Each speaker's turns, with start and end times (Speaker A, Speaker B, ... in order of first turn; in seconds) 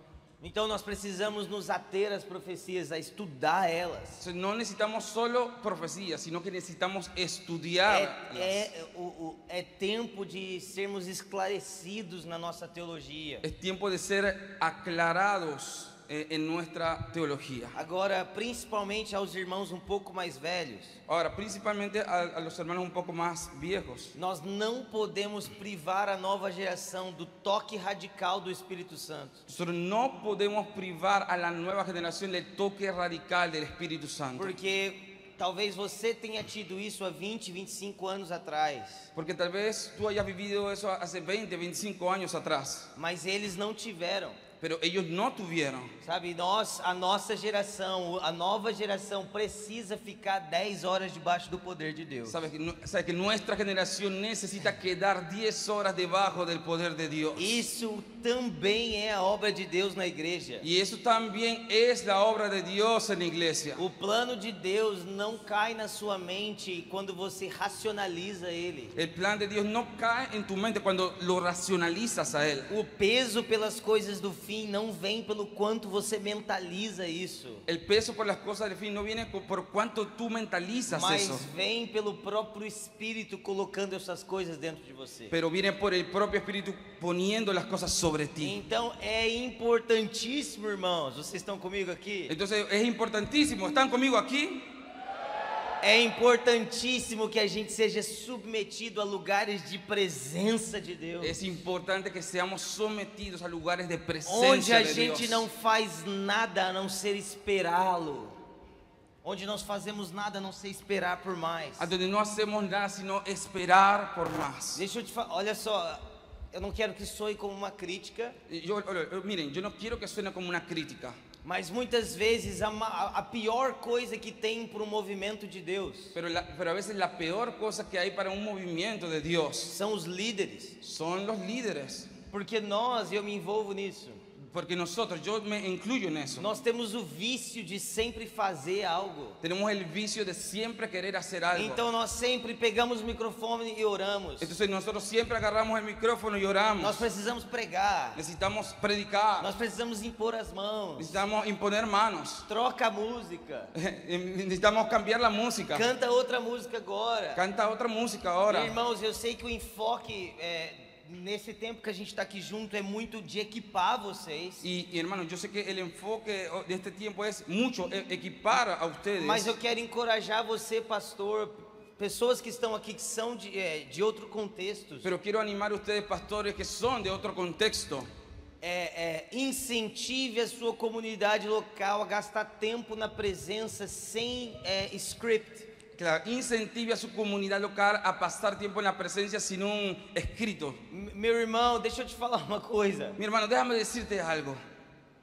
Speaker A: 0.4-4.2, 7.9-13.4, 17.7-21.0, 24.1-29.4, 34.4-39.1, 43.0-44.4, 46.0-52.4, 57.4-60.7, 63.8-68.9, 72.7-77.7, 80.9-85.3, 88.4-92.3, 95.8-101.4, 104.3-108.3, 109.2-111.9, 114.8-118.4, 121.4-126.2, 129.7-130.8, 132.3-134.2, 136.4-139.4, 141.5-144.5, 146.8-148.2, 149.4-151.2, 152.5-153.7, 155.7-157.4, 158.5-164.6, 169.2-175.1, 178.6-185.7, 190.9-193.2
Speaker B: 4.2-8.7, 13.4-17.8, 21.1-24.1, 29.5-34.5, 39.1-42.9, 44.6-45.9, 52.3-57.6, 60.6-63.8, 69.0-72.7, 77.7-81.5, 85.3-88.6, 92.3-94.7, 101.2-105.5, 111.8-114.8, 118.5-121.2, 126.2-129.8, 130.8-132.1, 134.4-136.5, 139.4-141.8, 144.4-147.1, 148.2-149.5, 151.0-152.5, 153.8-155.9, 157.3-158.8, 164.6-169.5, 175.0-178.1, 186.0-190.8, 193.2-194.6